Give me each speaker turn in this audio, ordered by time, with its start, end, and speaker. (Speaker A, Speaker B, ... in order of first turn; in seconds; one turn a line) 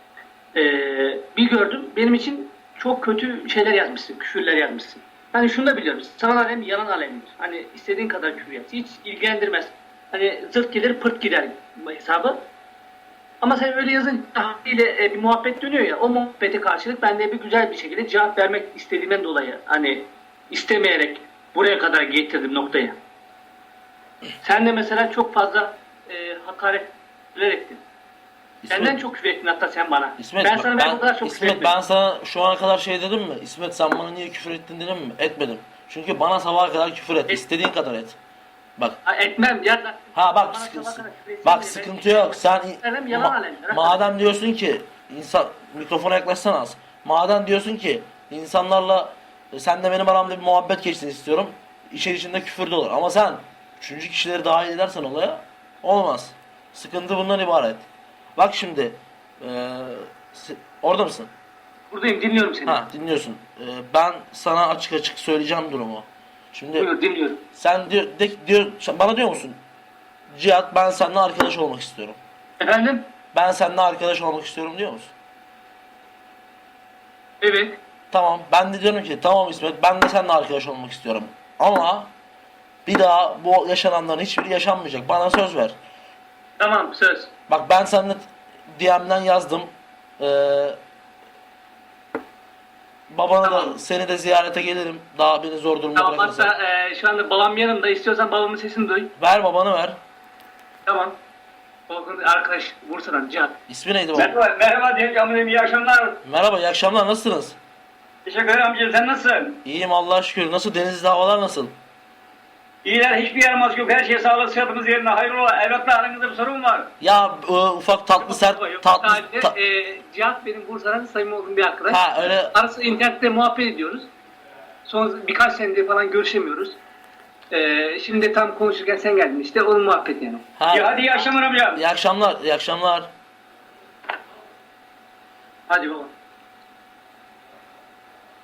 Speaker A: 0.6-12.4
Speaker A: 13.4-23.0
Speaker A: 24.4-27.8
Speaker B: 28.6-29.0
Speaker A: 28.7-31.7
Speaker B: 30.2-38.2
Speaker A: 39.0-44.0
Speaker B: 40.1-57.8
Speaker B: 58.4-61.3
Speaker A: 61.9-62.8
Speaker B: 62.7-66.9
Speaker A: 66.8-67.4
Speaker B: 67.5-69.6
Speaker B: 70.3-72.2
Speaker A: 72.6-73.0
Speaker B: 73.3-75.1
Speaker A: 77.4-77.8
Speaker B: 78.1-82.1
Speaker B: 82.8-85.8
Speaker A: 86.6-87.3
Speaker B: 87.5-88.2
Speaker B: 88.7-90.8
Speaker B: 93.1-96.5
Speaker A: 93.4-93.8
Speaker A: 96.0-99.1
Speaker B: 99.2-100.0
Speaker A: 100.9-101.2
Speaker A: 101.9-103.6
Speaker B: 103.7-104.3
Speaker C: 104.1-106.2
Speaker B: 106.2-107.6
Speaker C: 108.3-109.6
Speaker B: 109.7-111.7
Speaker C: 112.8-116.9
Speaker B: 117.0-119.5
Speaker A: 118.2-124.1
Speaker B: 121.9-122.5
Speaker A: 124.9-126.8
Speaker A: 127.5-130.5
Speaker B: 130.6-131.1
Speaker C: 130.7-131.8
Speaker A: 131.1-131.8
Speaker B: 131.7-133.1
Speaker A: 135.7-136.1